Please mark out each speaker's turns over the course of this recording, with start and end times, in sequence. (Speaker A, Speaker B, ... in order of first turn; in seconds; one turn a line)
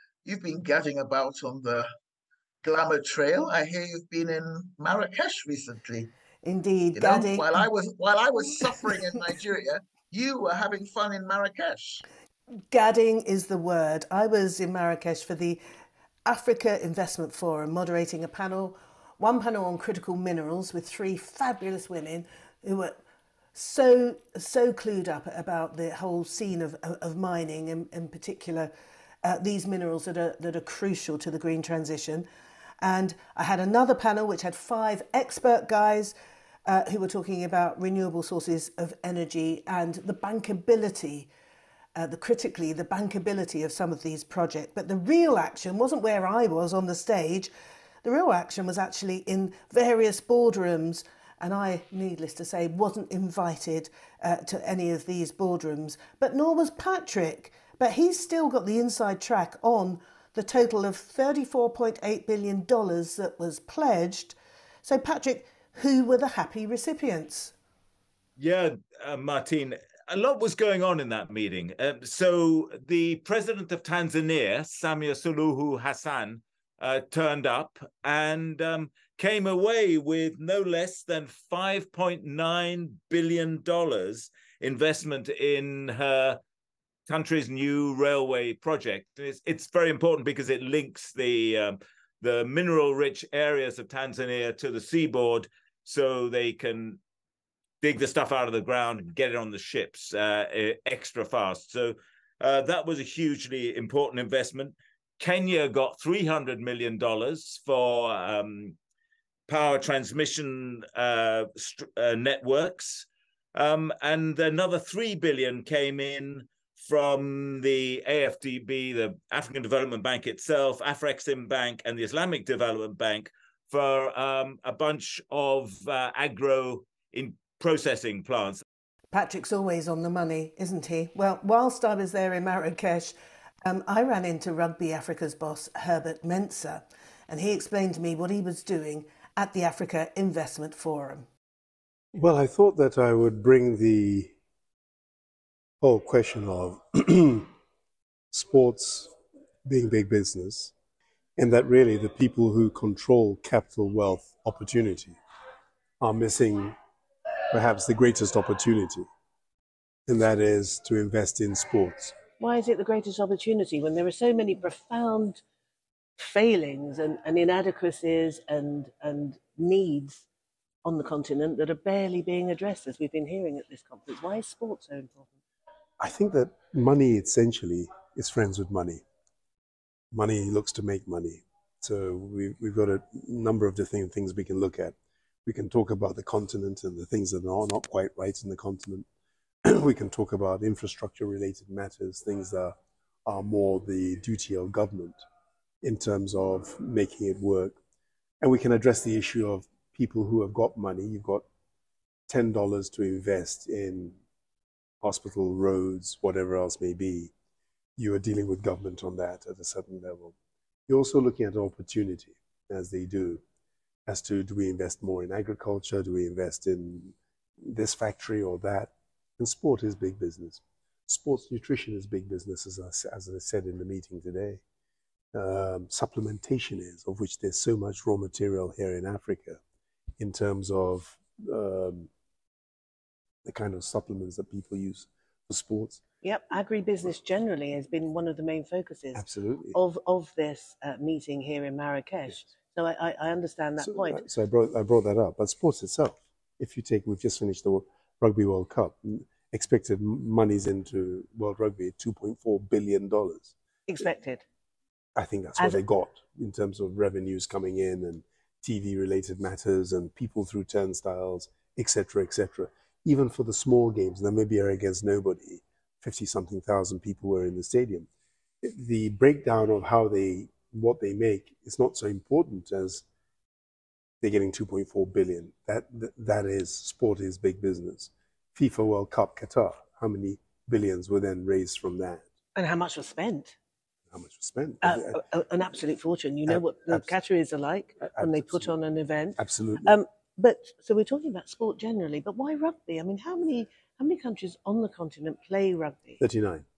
Speaker A: 0.2-1.9
Speaker A: 2.6-6.1
Speaker B: 6.4-7.5
Speaker A: 6.9-12.0
Speaker B: 12.7-15.6
Speaker B: 16.2-23.0
Speaker B: 23.5-28.7
Speaker B: 29.2-32.3
Speaker B: 32.8-36.1
Speaker B: 36.6-41.3
Speaker B: 42.0-47.5
Speaker B: 48.0-67.5
Speaker C: 68.4-86.4
Speaker C: 87.1-97.0
Speaker C: 97.8-108.8
Speaker C: 109.5-128.6
Speaker B: 129.1-141.3
Speaker D: 142.1-144.3
Speaker D: 145.8-147.5
Speaker D: 148.3-149.1
Speaker D: 149.6-150.7
Speaker D: 151.4-155.2
Speaker D: 156.0-156.8
Speaker D: 157.5-159.1
Speaker D: 160.1-162.1
Speaker B: 162.4-165.4
Speaker B: 166.2-170.3
Speaker B: 170.8-175.3
Speaker D: 176.0-179.0
Speaker D: 180.1-189.1
Speaker D: 189.6-195.2
Speaker D: 195.8-197.8
Speaker D: 198.4-201.4
Speaker D: 202.3-204.2
Speaker D: 205.0-207.3
Speaker D: 208.0-210.3
Speaker D: 210.9-213.4
Speaker D: 214.1-224.6
Speaker D: 225.3-229.6
Speaker D: 230.2-232.1
Speaker D: 233.4-236.0
Speaker B: 236.2-244.2
Speaker D: 239.1-239.8
Speaker D: 243.8-254.1
Speaker B: 253.9-254.4
Speaker D: 255.2-268.1
Speaker D: 268.6-273.0
Speaker D: 274.2-282.3
Speaker B: 282.5-283.6
Speaker D: 284.1-285.2
Speaker B: 284.8-296.2
Speaker D: 286.5-287.1
Speaker D: 288.0-288.7
Speaker D: 289.4-290.0
Speaker D: 296.2-296.7